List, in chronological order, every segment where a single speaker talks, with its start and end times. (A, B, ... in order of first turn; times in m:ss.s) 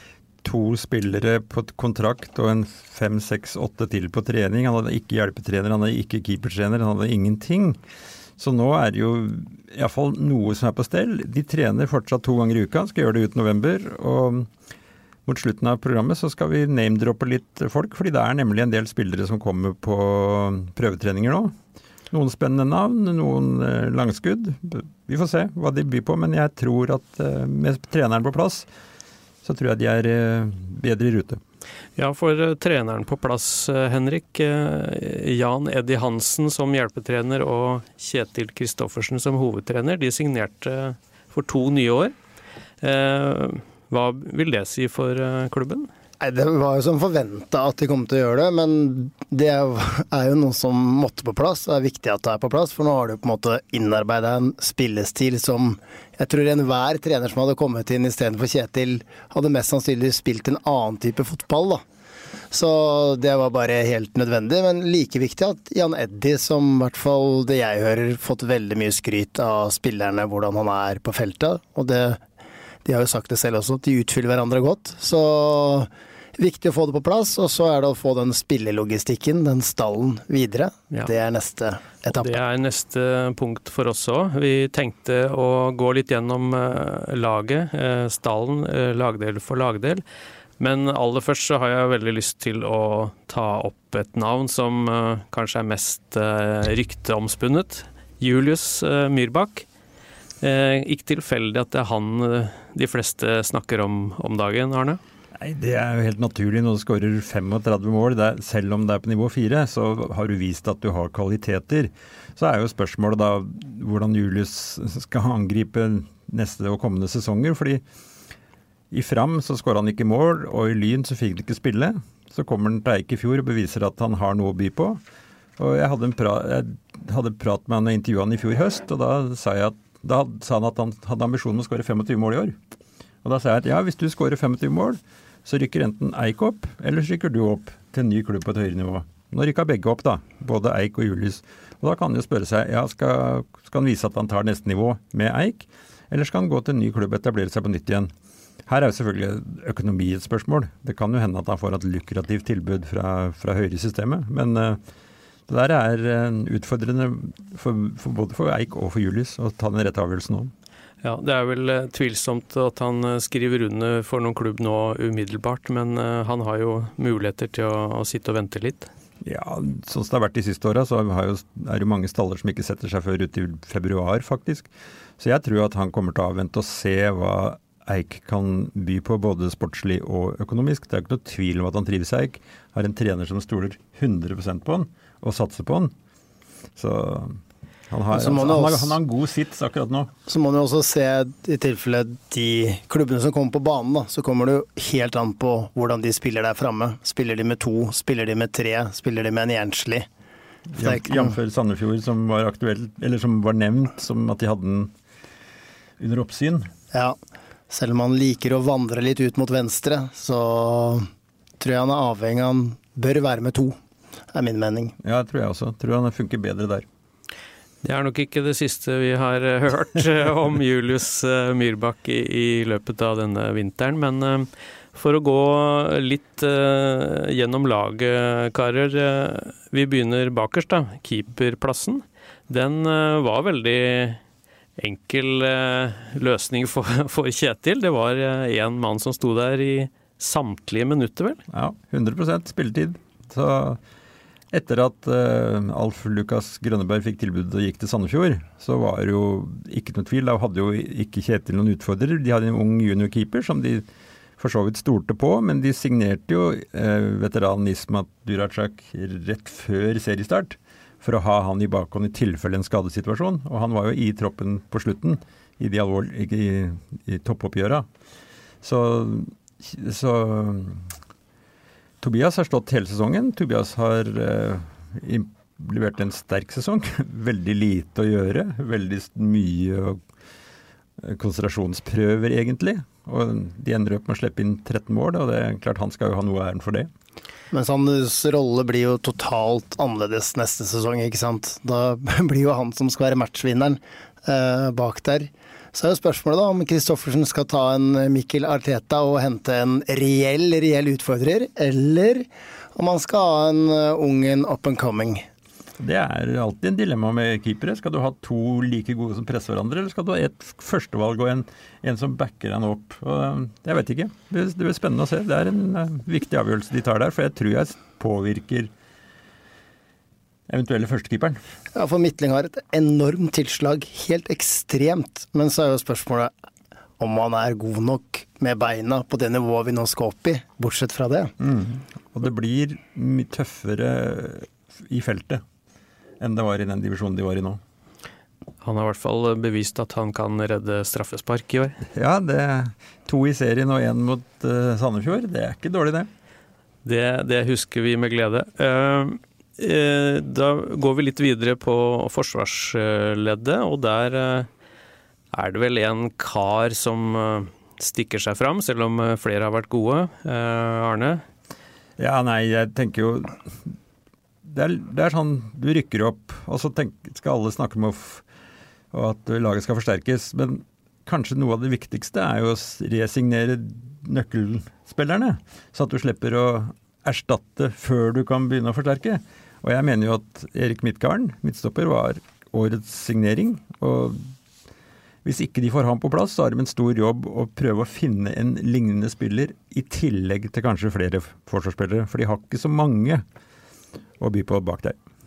0:00.4-0:07.8 A
0:08.4-0:14.5 A
0:15.2-0:21.5 A
0:22.1-0:28.7 A
0:29.4-0:31.4 A
0:32.0-0:42.1 B
0:42.8-0:45.9 B
0:46.2-1:01.8 C
1:02.5-1:12.2 C
1:12.8-1:22.4 C
1:22.1-1:30.0 B
1:30.6-1:39.6 B
1:40.4-1:45.0 B
1:45.4-1:57.8 A
1:58.9-2:05.0 A
2:05.6-2:12.6 A
2:13.2-2:28.1 A
2:28.7-2:34.8 A
2:35.5-2:40.5 A
2:41.0-2:48.9 B
2:49.2-3:05.9 A
3:06.8-3:07.4 A
3:07.9-3:10.1 A
3:08.1-3:09.0 C
3:10.3-3:20.1 C
3:20.7-3:24.9 A
3:20.8-3:21.4 C
3:26.0-3:26.7 A
3:27.7-3:31.1 C
3:31.6-3:33.8 C
3:34.3-3:34.9 C
3:35.0-3:36.9 A
3:37.8-3:54.2 B
3:54.8-4:01.4 B
4:01.5-4:03.8 A
4:04.5-4:13.8 A
4:14.4-4:27.8 A
4:28.6-4:30.9 A
4:32.0-4:40.0 A
4:41.0-4:46.9 A
4:47.5-5:05.3 C
5:05.8-5:18.7 A
5:20.5-5:21.4 A
5:21.7-5:26.3 C
5:27.0-5:31.3 C
5:31.4-5:35.4 A
5:36.2-5:37.6 A
5:38.6-5:41.8 B
5:41.9-5:46.1 A
5:46.8-5:54.5 B
5:55.3-6:01.2 B
6:02.0-6:03.7 A
6:04.4-6:08.2 A
6:08.9-6:24.3 A
6:25.2-6:33.2 A
6:34.2-6:35.0 A